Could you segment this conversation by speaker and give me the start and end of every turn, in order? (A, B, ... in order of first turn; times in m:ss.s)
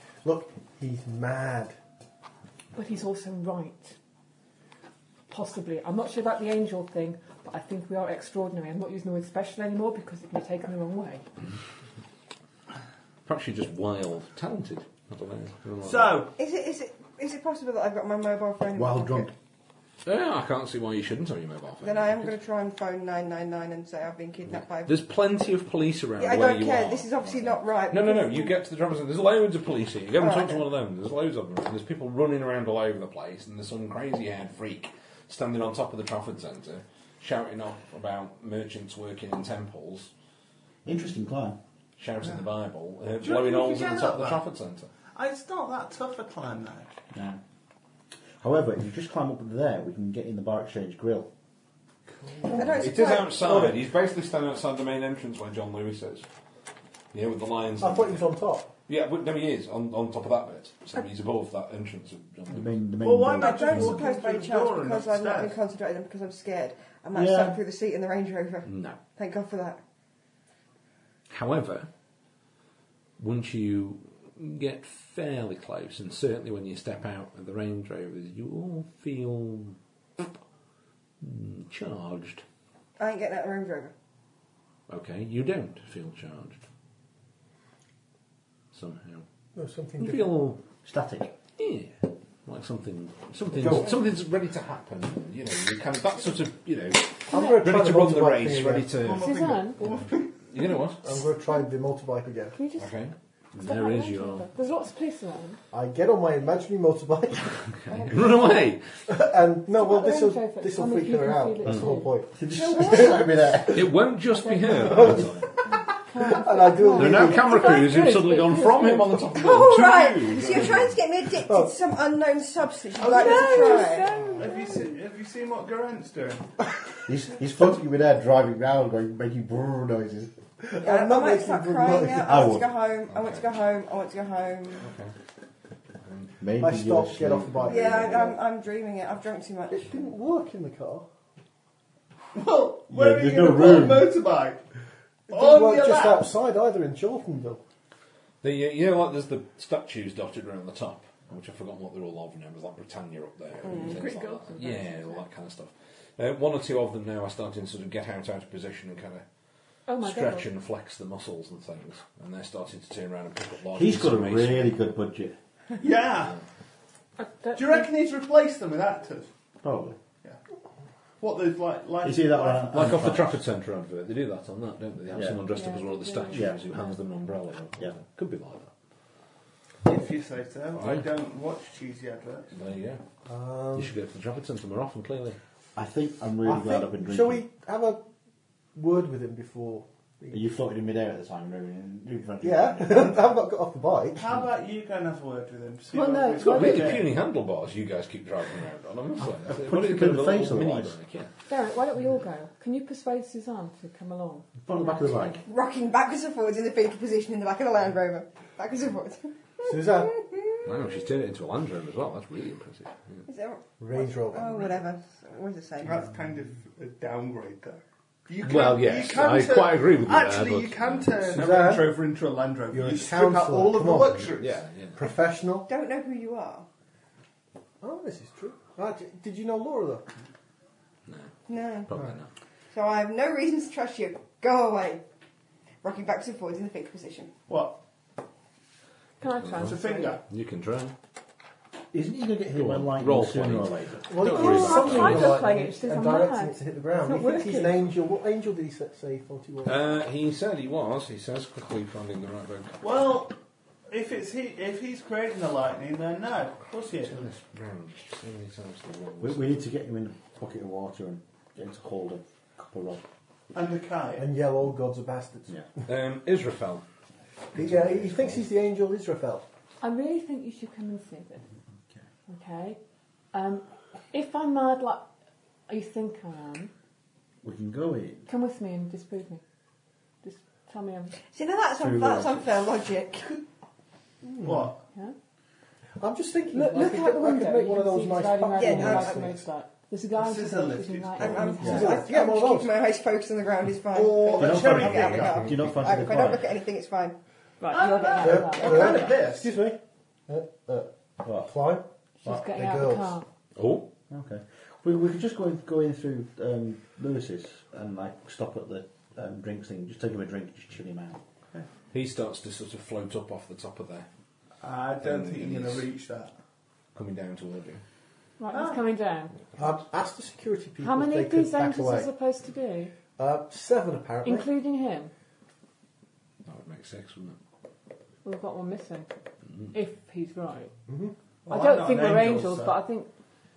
0:00.2-0:01.8 A
0:02.7-0:04.0 B
0:05.3-0:11.2 B
0:13.3-0:16.3 C
0:15.8-0:16.3 D
0:16.4-0:19.3 E
0:18.8-0:19.3 F
0:20.0-0:22.3 C
0:21.8-0:25.0 E
0:24.8-0:40.1 C
0:26.2-0:28.6 E
0:30.2-0:30.6 E
0:40.8-0:41.6 F
0:42.0-0:44.9 C
0:43.2-0:44.4 D
0:45.1-0:46.9 D
0:47.1-0:47.4 F
0:48.4-0:51.3 F
0:52.2-0:53.8 A
0:52.5-0:53.4 E
0:52.7-0:56.3 C
0:57.1-0:58.3 C
0:57.8-0:58.7 A
0:58.9-1:02.8 C
1:02.5-1:04.1 F
1:03.0-1:05.6 D
1:03.4-1:09.8 E
1:07.1-1:07.6 F
1:08.7-1:09.0 C
1:11.3-1:11.9 C
1:13.2-1:19.8 C
1:21.2-1:22.4 C
1:23.0-1:23.9 E
1:24.9-1:26.6 C
1:28.7-1:29.2 C
1:29.6-1:30.4 A
1:30.0-1:30.6 C
1:30.8-1:31.3 F
1:31.6-1:39.4 C
1:33.6-1:34.0 F
1:37.3-1:39.0 A
1:39.0-1:40.4 D
1:39.1-1:39.8 B
1:39.9-1:41.0 C
1:41.0-1:42.6 A
1:42.6-1:42.9 B
1:42.8-1:44.5 C
1:43.6-1:45.6 B
1:45.7-1:47.7 A
1:47.7-1:48.8 C
1:47.9-1:48.8 B
1:49.1-1:53.9 A
1:49.7-1:52.2 B
1:52.4-1:53.9 F
1:52.6-1:53.2 E
1:53.7-1:55.5 C
1:54.4-1:55.1 B
1:54.8-1:55.3 A
1:55.7-1:59.7 B
1:56.2-1:57.7 A
1:57.0-2:01.0 C
1:59.3-2:04.2 E
2:01.4-2:01.7 A
2:03.0-2:05.0 B
2:03.0-2:06.5 D
2:07.1-2:10.3 F
2:10.6-2:12.5 A
2:10.8-2:14.9 E
2:12.1-2:12.7 F
2:13.1-2:13.5 C
2:14.8-2:15.1 C
2:16.0-2:16.3 C
2:16.4-2:18.2 F
2:16.6-2:18.4 A
2:17.7-2:19.9 E
2:19.7-2:21.1 A
2:22.3-2:24.6 D
2:22.9-2:24.1 F
2:25.3-2:26.3 D
2:25.3-2:27.6 A
2:28.4-2:39.2 C
2:33.6-2:33.9 E
2:33.6-2:35.2 B
2:39.9-2:40.5 B
2:40.0-2:44.7 C
2:43.7-2:45.4 F
2:45.8-2:46.4 D
2:47.2-2:47.9 B
2:47.5-2:49.3 D
2:49.6-2:50.0 F
2:51.2-2:53.2 D
2:52.0-2:53.4 F
2:52.7-2:58.7 C
2:55.1-2:55.4 F
2:55.5-2:57.0 B
2:56.3-2:56.6 F
2:59.8-3:02.5 D
3:00.7-3:01.1 C
3:02.5-3:03.0 C
3:03.3-3:03.9 A
3:03.8-3:05.4 C
3:05.8-3:07.4 F
3:06.4-3:08.0 A
3:08.8-3:10.5 A
3:10.3-3:13.3 F
3:12.4-3:14.3 A
3:14.1-3:17.2 D
3:15.9-3:17.0 B
3:16.3-3:21.3 C
3:19.2-3:20.9 F
3:21.5-3:24.5 B
3:24.6-3:25.4 F
3:25.5-3:30.9 E
3:29.7-3:30.1 A
3:30.6-3:33.2 C
3:33.3-3:36.1 E
3:33.8-3:34.7 A
3:35.8-3:44.6 D
3:38.4-3:41.2 C
3:41.2-3:42.0 A
3:42.7-3:44.4 A
3:44.4-3:45.0 C
3:45.0-3:45.7 A
3:45.7-3:46.7 E
3:47.8-3:50.1 A
3:51.1-3:51.3 C
3:51.5-3:51.9 E
3:51.9-3:52.3 C
3:52.7-3:55.0 E
3:55.8-3:57.3 E
3:57.5-3:57.8 D
3:59.2-4:00.2 B
3:59.4-3:59.8 C
3:59.6-4:00.2 D
4:00.3-4:01.0 C
4:01.9-4:04.2 F
4:02.5-4:05.4 C
4:04.1-4:09.9 A
4:04.2-4:07.8 B
4:09.6-4:12.8 C
4:12.8-4:13.4 D
4:13.9-4:17.3 D
4:17.0-4:19.7 C
4:19.2-4:23.0 F
4:23.5-4:24.3 D
4:24.2-4:25.8 A
4:25.9-4:26.8 C
4:27.6-4:29.5 A
4:27.6-4:28.3 C
4:29.8-4:31.5 B
4:32.3-4:32.8 B
4:33.3-4:35.1 B
4:35.7-4:36.7 B
4:37.4-4:38.3 F
4:38.3-4:39.4 B
4:40.2-4:41.2 B
4:41.3-4:43.4 E
4:41.8-4:42.5 F
4:44.2-4:44.7 A
4:44.4-4:44.8 D
4:46.0-4:49.5 A
4:46.5-4:52.1 B
4:48.6-4:49.3 E
4:50.2-4:51.6 D
4:51.2-4:57.2 E
4:51.6-4:51.9 F
4:51.6-4:52.8 A
4:53.9-4:55.7 D
4:54.4-4:56.5 F
4:57.6-4:59.1 B
4:57.7-4:59.5 D
4:58.2-5:03.2 A
5:01.2-5:01.5 F
5:02.2-5:03.3 B
5:03.6-5:03.9 C
5:04.1-5:11.2 F
5:11.9-5:14.1 C
5:14.6-5:16.3 D
5:15.0-5:15.9 C
5:16.9-5:17.8 C
5:18.4-5:19.4 B
5:18.5-5:18.9 D
5:19.6-5:22.1 A
5:20.8-5:22.9 B
5:23.2-5:24.5 A
5:24.2-5:25.1 B
5:26.4-5:27.4 C
5:28.2-5:29.2 B
5:29.7-5:30.7 B
5:30.9-5:31.2 A
5:31.5-5:32.8 D
5:31.5-5:33.1 B